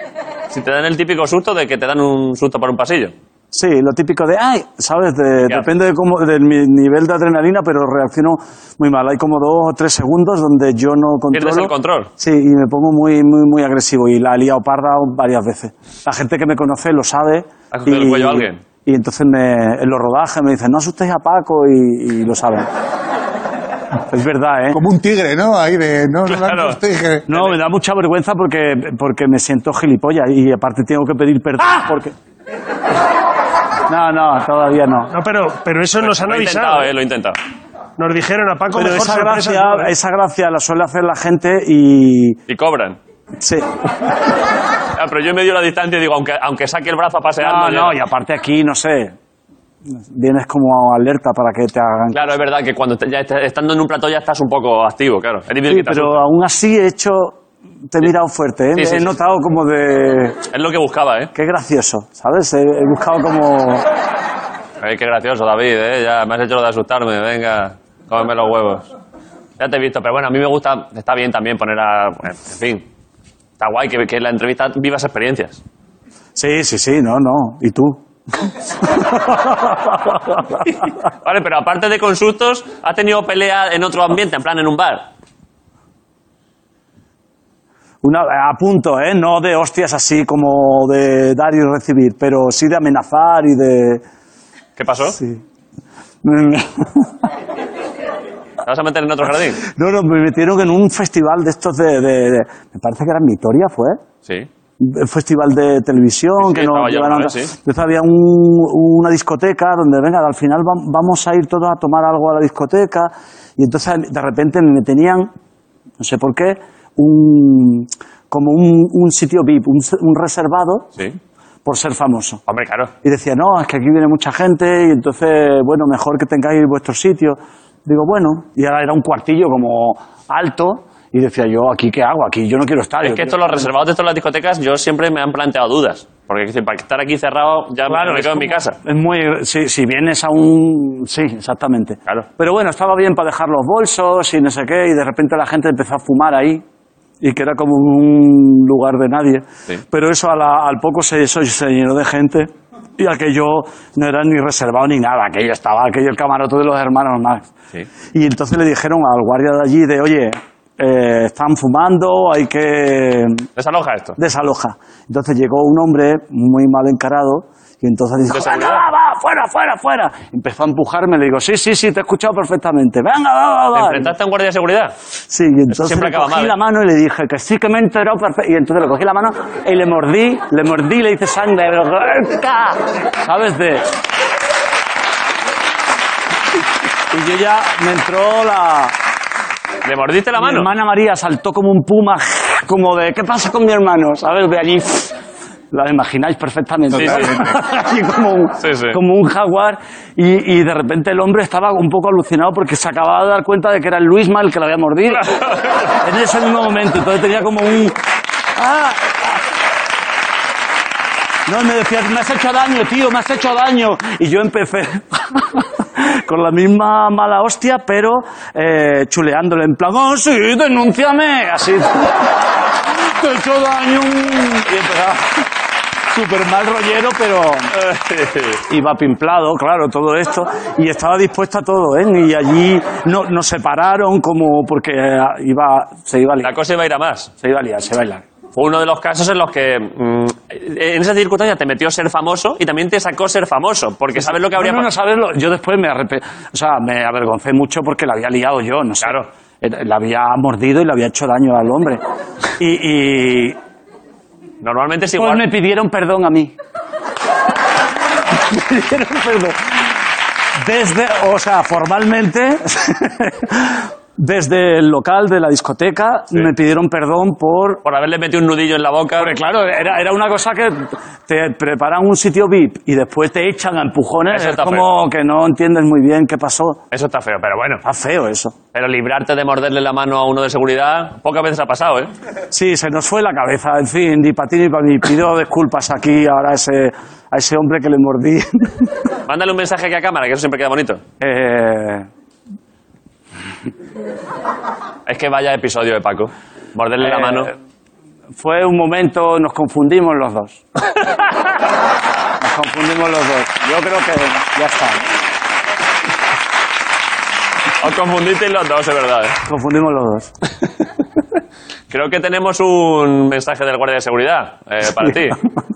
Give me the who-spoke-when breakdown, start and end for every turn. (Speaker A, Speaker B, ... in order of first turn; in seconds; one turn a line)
Speaker A: 0.5-3.1
Speaker B: 3.5-22.7
Speaker A: 11.3-12.1
Speaker A: 17.7-18.6
Speaker B: 24.1-24.8
Speaker C: 24.7-27.2
Speaker A: 26.3-26.8
Speaker B: 27.3-32.1
Speaker B: 33.9-35.1
Speaker D: 35.1-36.9
Speaker A: 36.0-37.4
Speaker D: 38.0-39.9
Speaker B: 38.7-42.4
Speaker A: 42.5-43.0
Speaker B: 43.4-43.7
Speaker A: 44.9-48.0
Speaker B: 47.4-49.1
Speaker B: 49.9-52.3
Speaker A: 52.1-56.2
Speaker B: 55.7-60.4
Speaker A: 58.7-59.1
Speaker A: 60.5-61.3
Speaker B: 61.3-63.9
Speaker A: 64.8-68.8
Speaker A: 69.6-72.8
Speaker A: 73.6-75.6
Speaker B: 76.3-80.7
Speaker A: 81.1-85.1
Speaker B: 88.0-94.0
Speaker A: 94.8-95.2
Speaker B: 95.1-95.4
Speaker B: 96.2-97.3
Speaker A: 98.6-99.6
Speaker B: 99.6-104.0
Speaker B: 104.8-115.3
Speaker A: 106.4-107.5
Speaker B: 116.0-120.9
Speaker B: 121.6-122.4
Speaker A: 122.5-122.9
Speaker B: 123.0-133.7
Speaker A: 133.0-138.8
Speaker B: 137.9-146.6
Speaker B: 147.2-157.5
Speaker B: 158.1-163.5
Speaker A: 163.6-164.2
Speaker B: 164.2-174.1
Speaker A: 168.3-168.8
Speaker A: 173.7-174.9
Speaker B: 175.3-183.8
Speaker A: 175.7-176.5
Speaker B: 187.1-188.9
Speaker A: 189.8-190.7
Speaker B: 190.4-195.2
Speaker B: 195.7-208.0
Speaker A: 196.9-197.4
Speaker C: 197.0-197.3
Speaker A: 198.6-199.0
Speaker A: 205.1-205.9
Speaker B: 208.6-209.4
Speaker B: 211.4-222.3
Speaker B: 222.9-225.5
Speaker B: 226.1-227.7
Speaker A: 227.7-228.6
Speaker B: 228.7-236.6
Speaker A: 236.4-237.3
Speaker B: 237.4-238.2
Speaker A: 238.5-244.9
Speaker B: 244.1-252.0
Speaker B: 252.6-253.6
Speaker A: 254.6-255.5
Speaker B: 255.2-256.5
Speaker B: 258.3-260.0
Speaker B: 260.6-267.8
Speaker A: 267.8-269.3
Speaker B: 269.1-276.8
Speaker A: 274.3-274.9
Speaker A: 276.9-277.8
Speaker B: 277.8-278.6
Speaker A: 278.7-282.1
Speaker B: 282.5-288.9
Speaker A: 289.3-291.0
Speaker B: 291.2-292.1
Speaker A: 295.1-297.5
Speaker B: 297.0-297.5
Speaker B: 298.4-300.6
Speaker B: 302.4-305.0
Speaker A: 307.8-309.4
Speaker B: 309.4-310.3
Speaker A: 311.9-315.4
Speaker B: 314.9-315.4